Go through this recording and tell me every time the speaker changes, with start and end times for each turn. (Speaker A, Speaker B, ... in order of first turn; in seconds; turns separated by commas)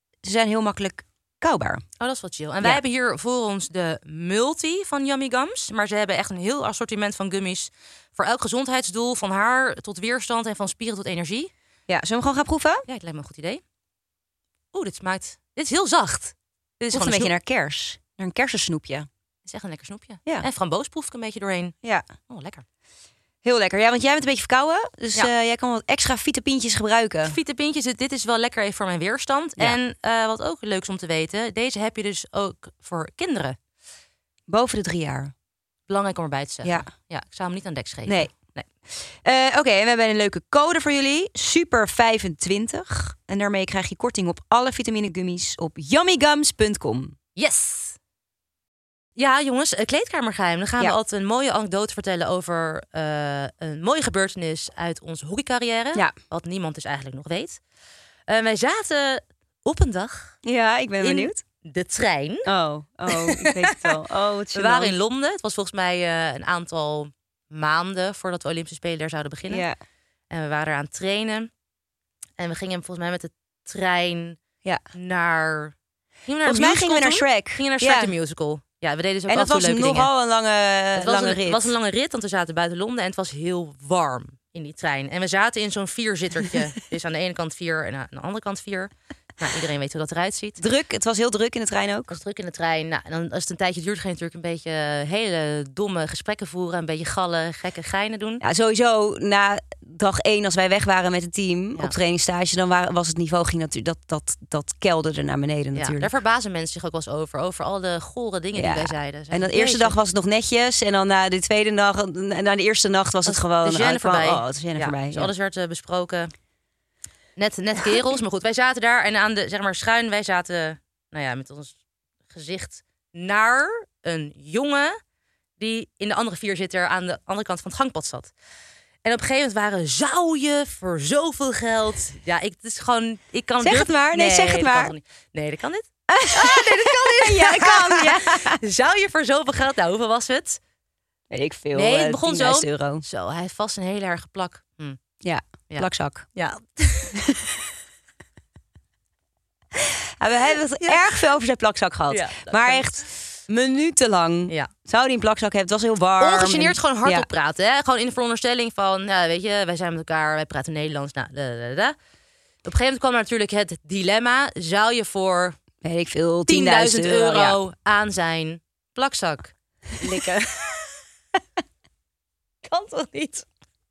Speaker A: 0.2-1.8, Speaker B: 2.0-11.5, Speaker A: 11.9-12.8, Speaker B: 12.9-13.6, Speaker B: 14.7-17.3, Speaker A: 16.8-19.1, Speaker B: 19.5-21.8, Speaker B: 22.3-22.6, Speaker A: 23.4-27.4, Speaker B: 27.2-33.6, Speaker A: 34.5-35.3, Speaker B: 35.9-38.7, Speaker A: 38.1-38.3, Speaker A: 39.2-47.1, Speaker B: 47.4-48.0, Speaker B: 49.2-57.6, Speaker B: 58.3-60.4, Speaker A: 60.4-61.4, Speaker B: 61.0-62.5, Speaker A: 62.5-65.0, Speaker B: 63.1-64.0, Speaker B: 64.5-69.7, Speaker A: 69.5-69.8, Speaker B: 70.3-71.5, Speaker B: 72.4-74.4, Speaker B: 74.9-75.8, Speaker B: 76.3-80.1, Speaker A: 76.4-78.1, Speaker A: 79.3-81.7, Speaker B: 81.0-90.6, Speaker A: 90.6-92.2, Speaker B: 92.1-98.4, Speaker A: 98.4-106.1, Speaker B: 105.7-110.0, Speaker A: 108.5-115.3, Speaker B: 113.3-116.3, Speaker B: 117.4-121.8, Speaker B: 122.3-125.0, Speaker B: 125.6-128.3, Speaker B: 129.1-140.6, Speaker A: 133.6-134.9, Speaker A: 136.1-138.6, Speaker A: 141.3-143.1, Speaker B: 141.7-145.0, Speaker A: 145.2-146.3, Speaker B: 145.7-147.1, Speaker A: 147.1-147.6, Speaker A: 149.8-157.3, Speaker B: 150.8-151.2, Speaker B: 152.1-153.2, Speaker B: 156.2-162.0, Speaker B: 162.7-165.6, Speaker A: 165.8-167.6, Speaker B: 166.5-171.0, Speaker B: 172.7-173.5